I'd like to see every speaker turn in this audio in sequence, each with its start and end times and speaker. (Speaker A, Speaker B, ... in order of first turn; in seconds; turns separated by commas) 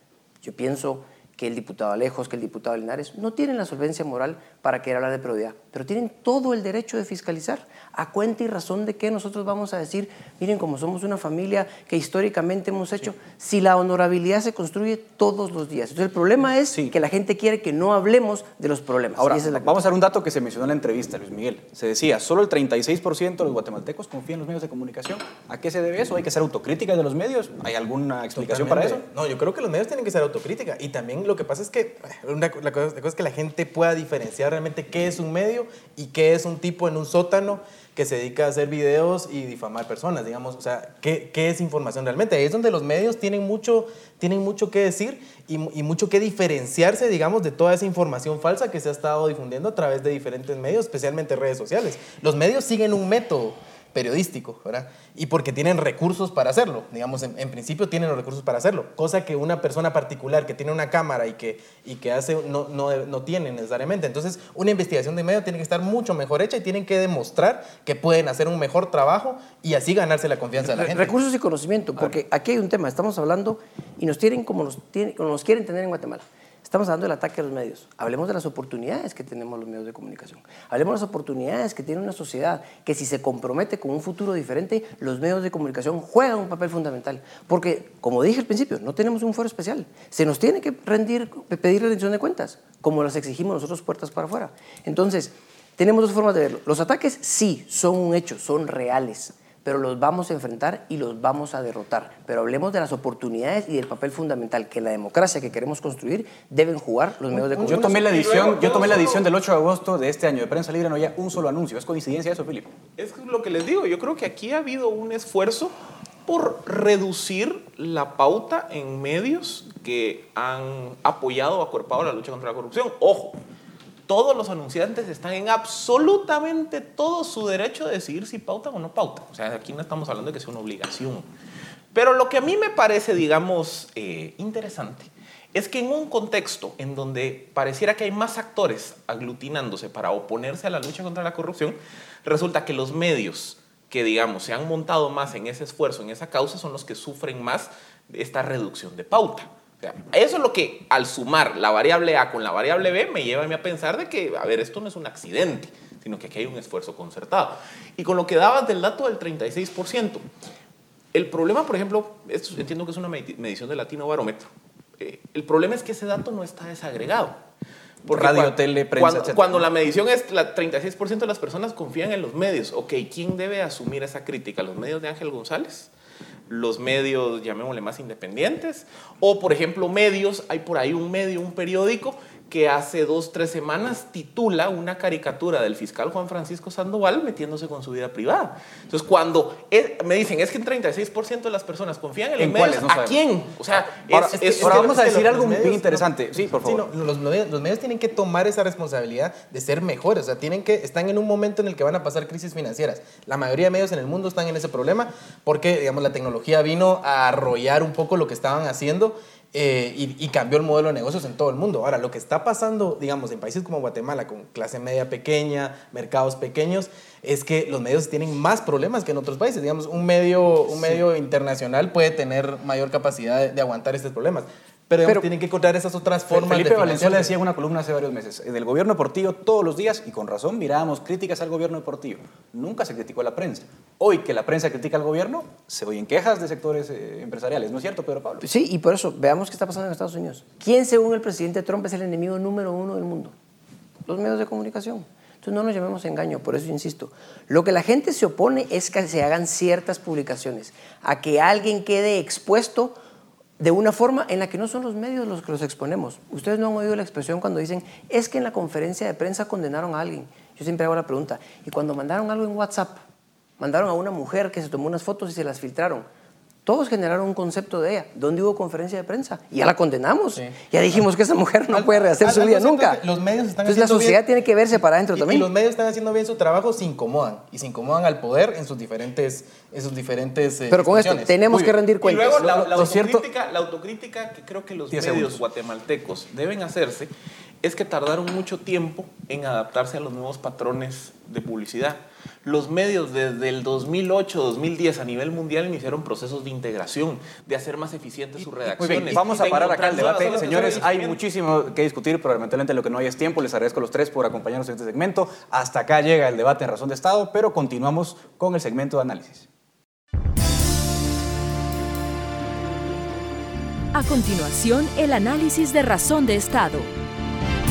Speaker A: 0.4-19.9, Speaker B: 19.2-29.1, Speaker C: 28.3-71.1, Speaker A: 70.6-108.0, Speaker C: 107.3-108.1, Speaker B: 107.6-112.7, Speaker D: 108.0-109.3, Speaker D: 113.0-115.7, Speaker D: 116.2-123.4, Speaker D: 124.1-131.3, Speaker D: 131.9-160.2, Speaker D: 161.1-167.4, Speaker D: 168.1-175.9, Speaker B: 168.1-169.7, Speaker D: 176.5-195.0, Speaker B: 192.4-193.2, Speaker B: 193.9-196.9, Speaker C: 194.2-227.3, Speaker B: 220.7-221.0, Speaker B: 226.3-238.4, Speaker A: 238.4-243.3, Speaker A: 244.1-253.0, Speaker A: 253.6-263.0, Speaker A: 263.6-266.1, Speaker A: 266.6-273.0, Speaker C: 271.7-281.4, Speaker A: 273.6-275.5, Speaker A: 280.7-282.6, Speaker B: 281.4-281.8, Speaker D: 282.0-287.1, Speaker B: 282.4-283.2, Speaker B: 284.9-285.4, Speaker D: 287.6-301.2, Speaker B: 298.7-309.5, Speaker E: 313.9-316.9